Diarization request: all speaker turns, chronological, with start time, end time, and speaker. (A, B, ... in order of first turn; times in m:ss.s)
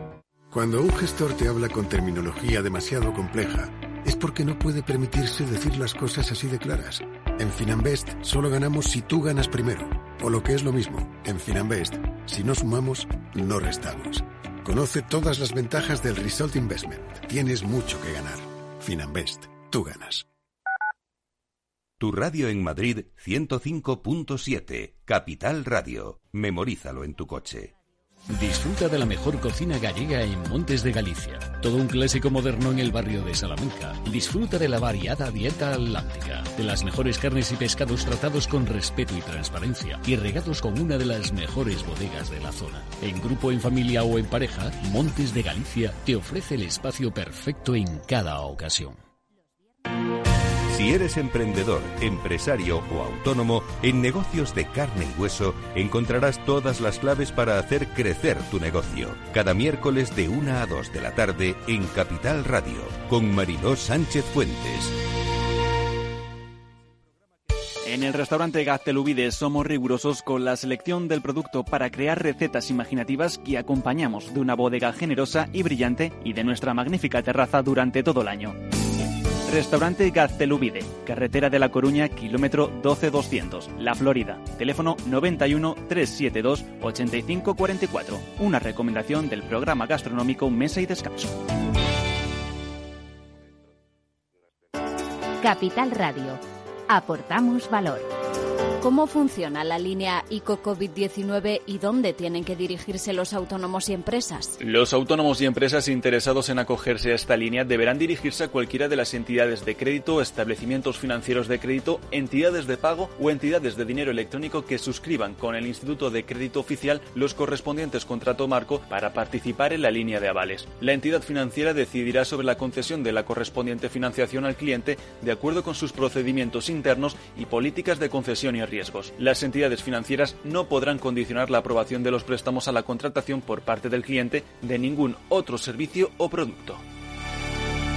0:00.5-0:20.2 A
0:22.0-0:27.7 B
0:28.3-0:49.0 C
0:50.7-1:04.9 B
1:07.8-1:18.6 D
1:19.4-1:31.4 D
1:35.4-1:38.1 E
1:38.8-1:44.6 F
1:44.6-2:16.8 D